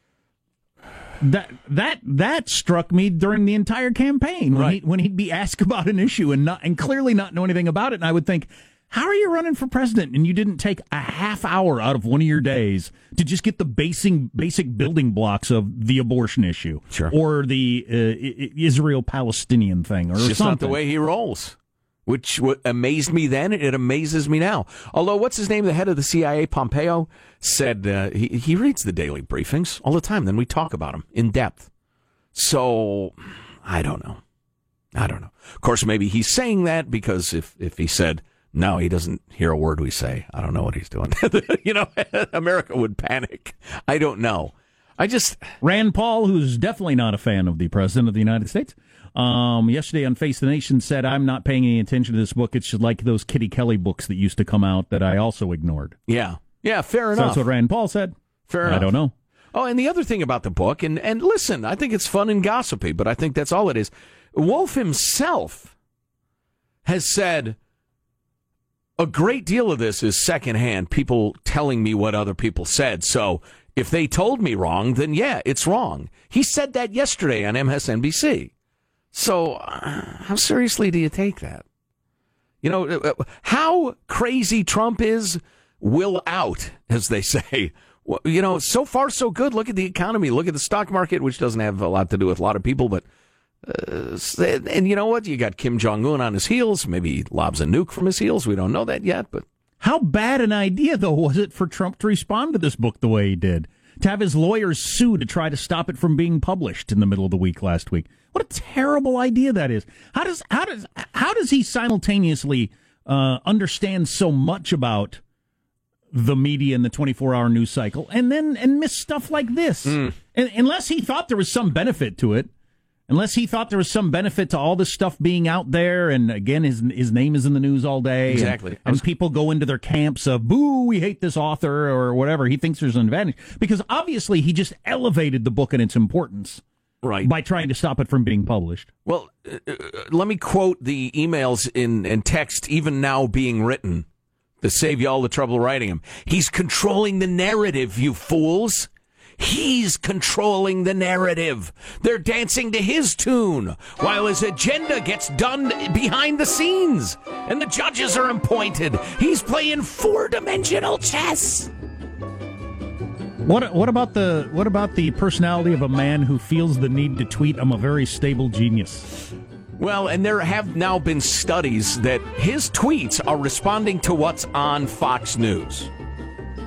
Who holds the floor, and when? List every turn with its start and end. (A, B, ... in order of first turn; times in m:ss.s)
0:01.2-0:20.8 A
0:04.5-0:04.8 B
0:20.2-0:31.7 B
0:32.4-0:34.2 B
0:35.0-0:45.5 B
0:45.6-0:56.0 A
0:56.1-0:57.4 B
0:57.1-0:59.1 A
0:58.5-0:59.0 B
0:59.5-1:05.7 B
1:06.8-1:07.6 B
1:09.0-1:18.5 B
1:19.1-1:21.6 B
1:22.6-1:33.0 B
1:33.6-1:39.5 B
1:39.8-1:55.2 A
1:56.1-2:02.5 A
1:59.9-2:00.2 B
2:03.1-2:16.6 A
2:08.3-2:09.0 B
2:17.0-2:17.3 B
2:17.2-2:18.9 A
2:19.1-2:24.0 B
2:24.6-2:41.7 B
2:43.4-2:49.1 A
2:49.8-2:55.9 B